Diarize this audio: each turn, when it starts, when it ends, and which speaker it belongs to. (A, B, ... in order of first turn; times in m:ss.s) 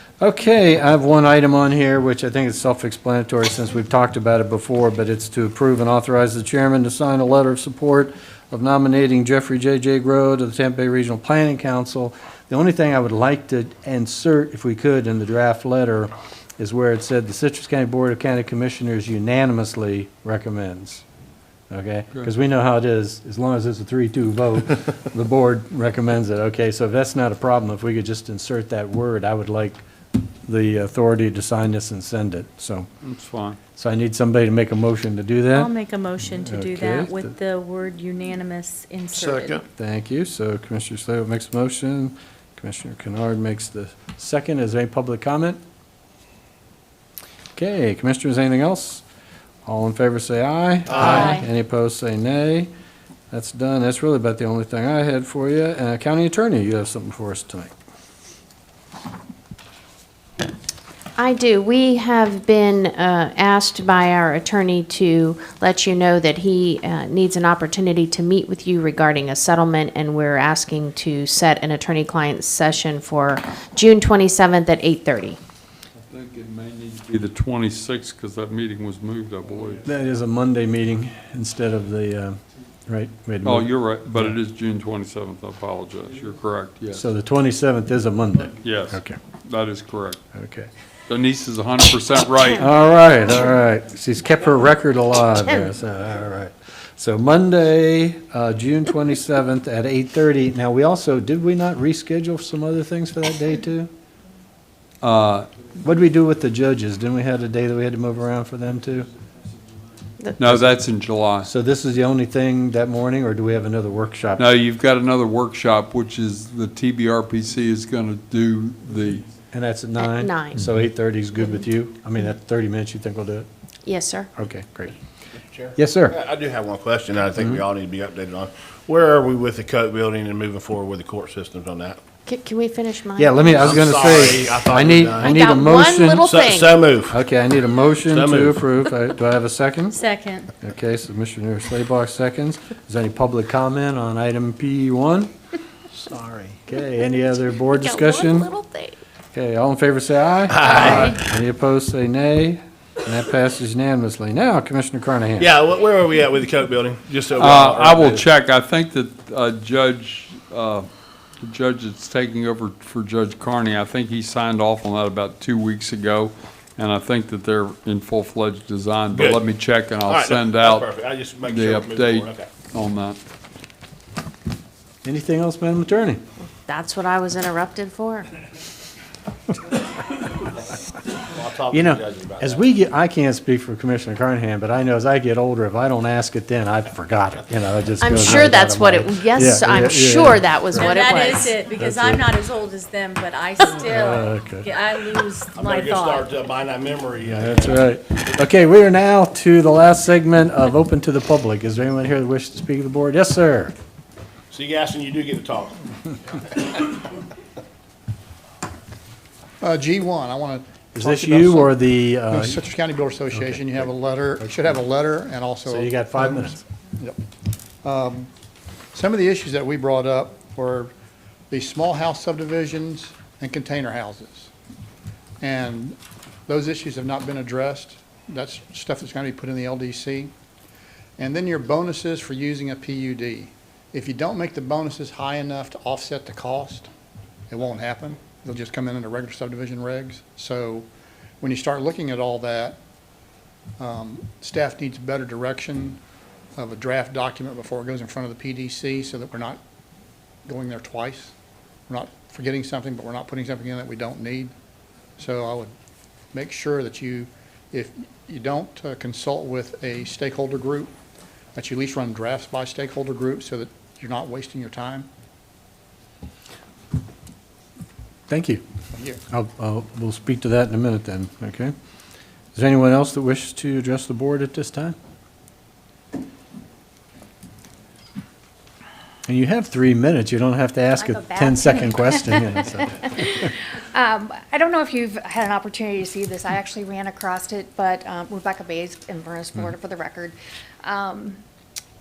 0:00.2-0:21.0 A
0:21.7-0:29.8 A
0:30.4-0:32.9 A
0:33.0-0:33.6 B
0:33.8-0:37.3 A
0:35.5-0:39.6 C
0:39.2-0:39.6 D
0:39.7-0:45.6 A
0:47.6-0:49.0 A
0:49.7-0:52.7 A
0:50.9-0:51.4 D
0:53.3-0:57.7 A
1:01.2-1:15.4 E
1:16.0-1:19.8 B
1:19.8-1:24.4 A
1:23.4-1:27.0 B
1:26.9-1:29.2 A
1:28.6-1:30.2 B
1:30.3-1:30.7 A
1:31.1-1:32.7 B
1:32.6-1:43.9 A
1:45.0-1:45.5 B
1:45.8-1:49.1 A
1:50.4-1:51.5 B
1:51.4-1:54.5 A
1:54.4-1:59.3 B
1:59.5-2:03.5 A
2:00.0-2:00.7 E
2:03.8-2:04.3 E
2:04.4-2:05.0 A
2:05.5-2:12.0 D
2:05.8-2:06.2 A
2:12.3-2:14.0 E
2:13.2-2:16.3 A
2:13.6-2:15.4 D
2:15.2-2:16.8 E
2:16.2-2:17.2 D
2:17.1-2:20.0 A
2:18.1-2:18.6 D
2:19.9-2:20.5 C
2:20.6-2:25.3 A
2:26.1-2:28.5 A
2:27.6-2:29.0 E
2:29.3-2:35.5 A
2:30.5-2:31.1 D
2:35.4-2:38.2 D
2:37.4-2:40.9 B
2:41.4-2:53.2 B
2:49.1-2:49.4 D
2:50.1-2:52.5 D
2:55.0-2:56.2 A
2:56.6-2:58.3 E
3:01.3-3:02.6 D
3:01.7-3:11.0 A
3:08.0-3:11.6 E
3:10.7-3:16.4 C
3:11.8-3:12.3 A
3:13.8-3:14.7 A
3:15.6-3:17.8 D
3:17.3-3:23.7 A
3:24.5-3:25.8 D
3:29.6-3:37.2 F
3:31.0-3:32.6 A
3:33.3-3:33.9 A
3:35.6-3:36.6 A
3:37.8-3:38.3 F
3:38.9-3:40.9 F
3:41.5-3:44.5 F
3:45.4-3:50.3 F
3:51.2-3:56.9 F
3:57.5-4:00.9 F
4:01.4-4:02.8 F
4:03.8-4:06.0 F
4:06.6-4:09.6 F
4:10.5-4:11.3 F
4:11.9-4:14.5 F
4:15.2-4:15.7 F
4:16.3-4:20.9 F
4:21.6-4:25.1 F
4:28.3-4:28.6 A
4:29.3-4:31.7 A
4:32.6-4:35.0 A
4:39.3-4:43.2 A
4:41.0-4:42.3 G
4:42.9-4:51.4 G